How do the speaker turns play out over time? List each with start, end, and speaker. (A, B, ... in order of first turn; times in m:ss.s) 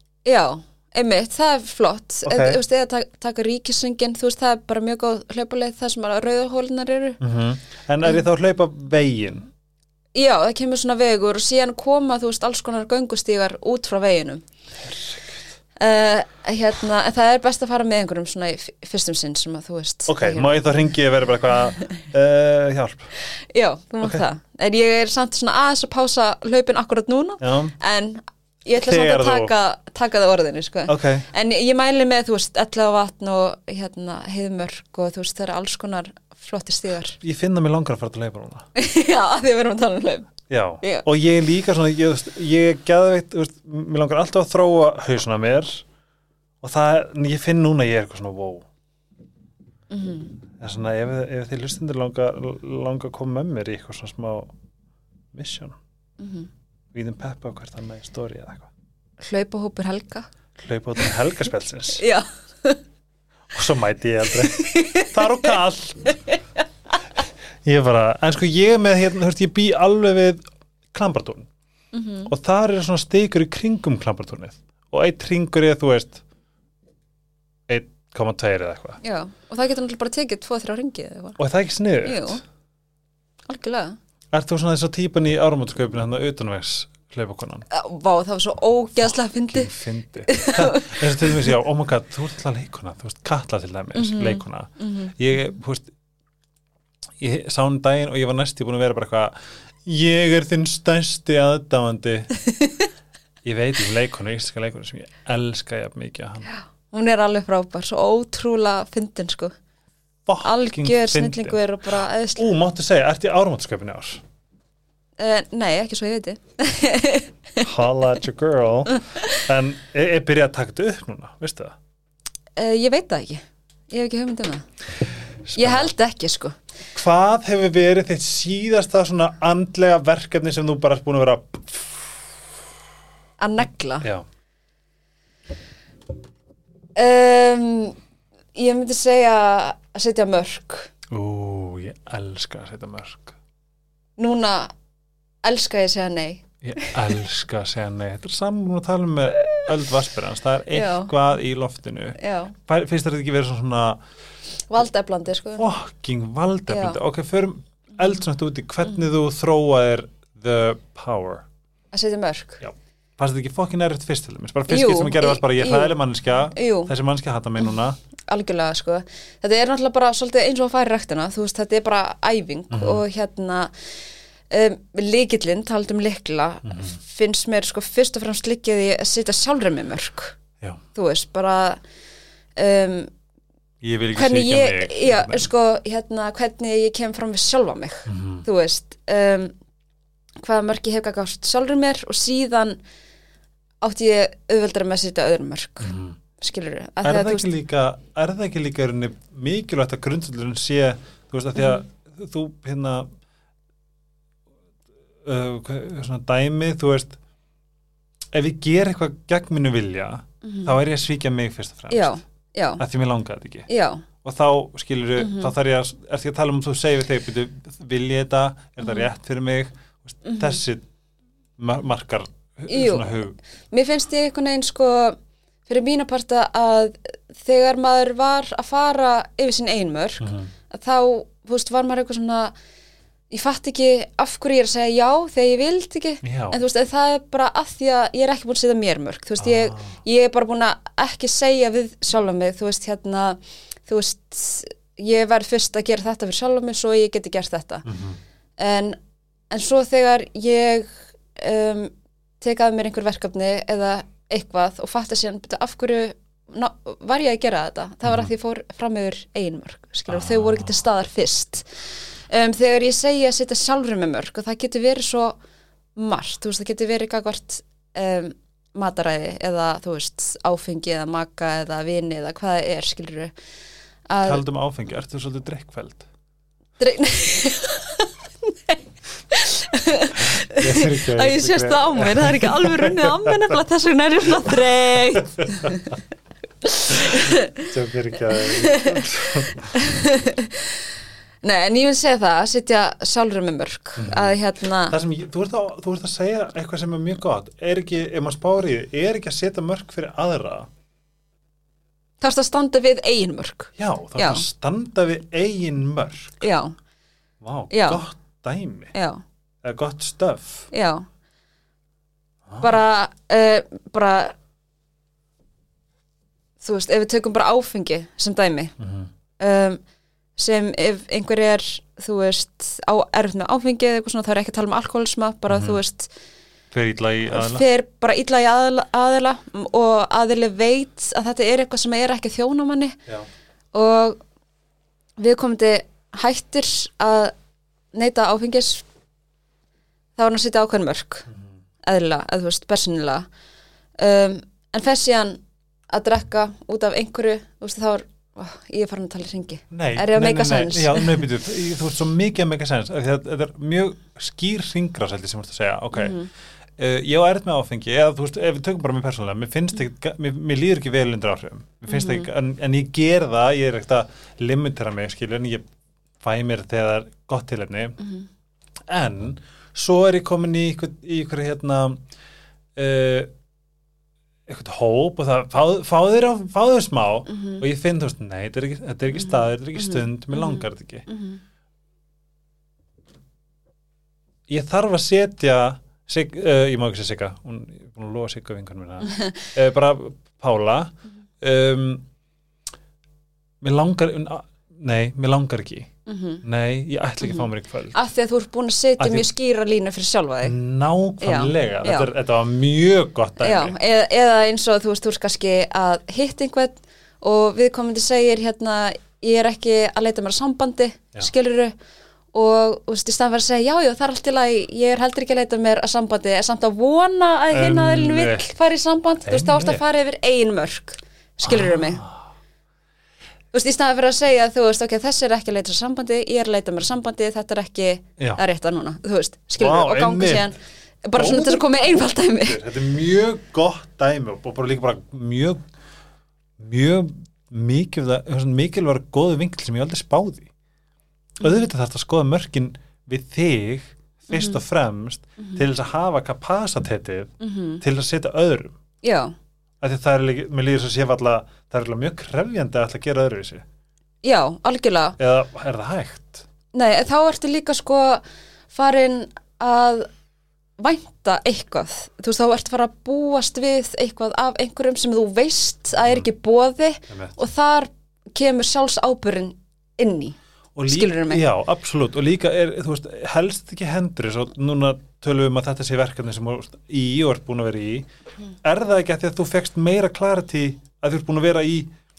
0:00.2-0:07.2 A
0:02.2-0:02.6 B
0:07.2-0:09.5 B
0:10.1-0:14.4 A
0:14.8-0:15.4 B
0:15.8-0:20.6 A
0:20.1-0:23.1 B
0:23.3-0:37.2 A
0:27.4-0:27.7 B
0:28.8-0:29.5 B
0:30.9-0:31.3 B
0:37.2-0:38.7 B
0:38.7-0:41.0 A
0:40.5-0:45.8 B
0:46.6-0:48.6 B
0:49.9-0:50.4 A
0:50.6-0:54.5 B
0:55.3-0:55.8 B
0:56.2-0:56.5 A
0:56.9-0:58.7 B
0:59.2-1:00.3 A
1:00.6-1:02.0 B
1:01.9-1:02.8 A
1:03.5-1:06.1 B
1:04.4-1:06.4 A
1:07.6-1:11.5 B
1:11.9-1:12.3 A
1:12.3-1:16.2 B
1:17.7-1:19.0 B
1:19.0-1:21.4 A
1:21.4-1:22.4 B
1:22.0-1:22.4 A
1:23.5-1:24.0 A
1:24.3-1:27.6 B
1:27.7-1:29.7 A
1:29.0-1:35.9 B
1:30.2-1:31.5 A
1:33.9-1:35.2 A
1:37.2-1:42.3 B
1:42.4-1:42.9 A
1:43.4-1:46.5 B
1:46.4-1:49.5 A
1:50.2-1:51.6 B
1:50.4-1:52.4 A
1:52.4-1:54.2 B
1:55.2-1:57.6 A
1:57.6-2:01.8 B
1:58.9-1:59.3 A
2:02.6-2:04.6 A
2:05.4-2:05.9 B
2:05.6-2:06.6 A
2:06.9-2:12.3 B
2:13.4-2:14.1 A
2:17.0-2:18.0 A
2:18.5-2:20.9 A
2:21.1-2:23.4 B
2:24.2-2:24.7 A
2:25.4-2:27.0 A
2:26.6-2:34.0 B
2:30.7-2:31.1 A
2:32.2-2:32.5 A
2:34.7-2:35.7 A
2:35.5-2:41.4 B
2:36.7-2:37.0 A
2:41.9-2:42.6 A
2:42.6-2:48.0 B
2:44.7-2:46.0 A
2:46.5-2:46.9 A
2:48.3-2:53.7 A
2:52.7-2:53.0 B
2:54.5-3:00.4 A
2:56.6-2:57.0 B
3:00.9-3:01.8 A
3:02.6-3:03.1 A
3:03.8-3:05.5 B
3:04.1-3:09.5 A
3:08.0-3:08.4 B
3:10.4-3:12.8 A
3:13.8-3:17.5 A
3:15.8-3:16.2 B
3:17.0-3:23.1 B
3:21.6-3:21.8 A
3:25.2-3:27.2 B
3:28.3-3:32.2 B
3:30.4-3:30.7 A
3:31.9-3:32.8 A
3:32.8-3:33.7 B
3:33.7-3:34.0 A
3:34.2-3:40.8 B
3:35.2-3:35.5 A
3:40.2-3:40.6 A
3:41.6-3:43.4 B
3:42.7-3:43.2 A
3:43.7-3:52.5 A
3:50.2-3:50.5 B
3:53.3-4:07.8 A
3:56.2-3:56.6 B
3:59.4-4:00.0 B
4:07.8-4:08.2 B
4:08.6-4:09.0 A
4:09.5-4:21.7 A
4:18.0-4:18.3 B
4:20.1-4:20.7 B
4:22.3-4:25.4 A
4:26.0-4:33.3 A
4:34.1-4:34.4 A
4:34.2-4:36.0 B
4:36.8-4:46.0 A
4:40.2-4:43.6 B
4:44.5-4:45.7 B
4:46.6-4:47.7 A
4:47.1-4:49.8 B
4:48.3-4:49.0 A
4:49.7-4:50.9 A
4:51.4-4:55.0 A
4:54.0-4:54.4 B
4:54.9-5:00.7 B
5:02.2-5:04.4 A
5:03.8-5:06.4 B
5:06.4-5:06.7 A
5:07.4-5:08.9 B
5:07.7-5:08.0 A
5:08.9-5:09.2 A
5:09.6-5:10.7 B
5:10.7-5:11.1 A
5:12.5-5:12.8 B
5:12.6-5:14.3 A
5:16.6-5:18.7 A
5:18.8-5:19.1 B
5:19.4-5:19.8 A
5:20.4-5:26.1 A
5:25.5-5:25.8 B
5:26.7-5:27.6 B
5:27.3-5:33.0 A
5:33.7-5:34.2 A
5:35.2-5:37.3 A
5:37.9-5:38.8 A
5:40.2-5:41.3 A
5:41.8-5:43.3 A
5:44.0-5:51.2 A
5:49.7-5:56.2 B
5:55.9-5:56.3 A
5:56.8-6:05.7 B
6:01.9-6:02.3 A
6:06.2-6:08.0 B
6:08.0-6:08.2 A
6:08.9-6:12.0 B
6:12.8-6:13.3 B
6:14.5-6:21.1 B
6:17.3-6:17.6 A
6:19.2-6:21.4 A
6:24.5-6:32.0 B
6:29.0-6:29.4 A
6:33.6-6:35.9 B
6:36.0-6:36.4 A
6:36.4-6:38.0 B
6:37.2-6:40.5 A
6:39.0-6:39.3 B
6:40.4-6:43.7 B
6:41.2-6:42.1 A
6:43.4-6:51.7 A
6:52.3-7:02.0 A
6:57.5-6:58.4 B
6:59.2-6:59.8 B
7:01.4-7:02.3 B
7:03.5-7:12.6 A
7:09.6-7:10.5 B
7:11.1-7:15.6 B
7:16.6-7:20.5 B
7:21.4-7:28.8 B
7:24.3-7:24.6 A
7:27.4-7:27.8 A
7:29.0-7:29.3 A
7:29.8-7:33.6 B
7:34.2-7:35.2 A
7:35.2-7:36.4 B
7:36.7-7:40.1 A
7:40.8-7:50.4 A
7:46.0-7:46.2 B
7:50.8-7:58.0 B
7:50.9-7:51.4 A
7:58.6-8:01.9 B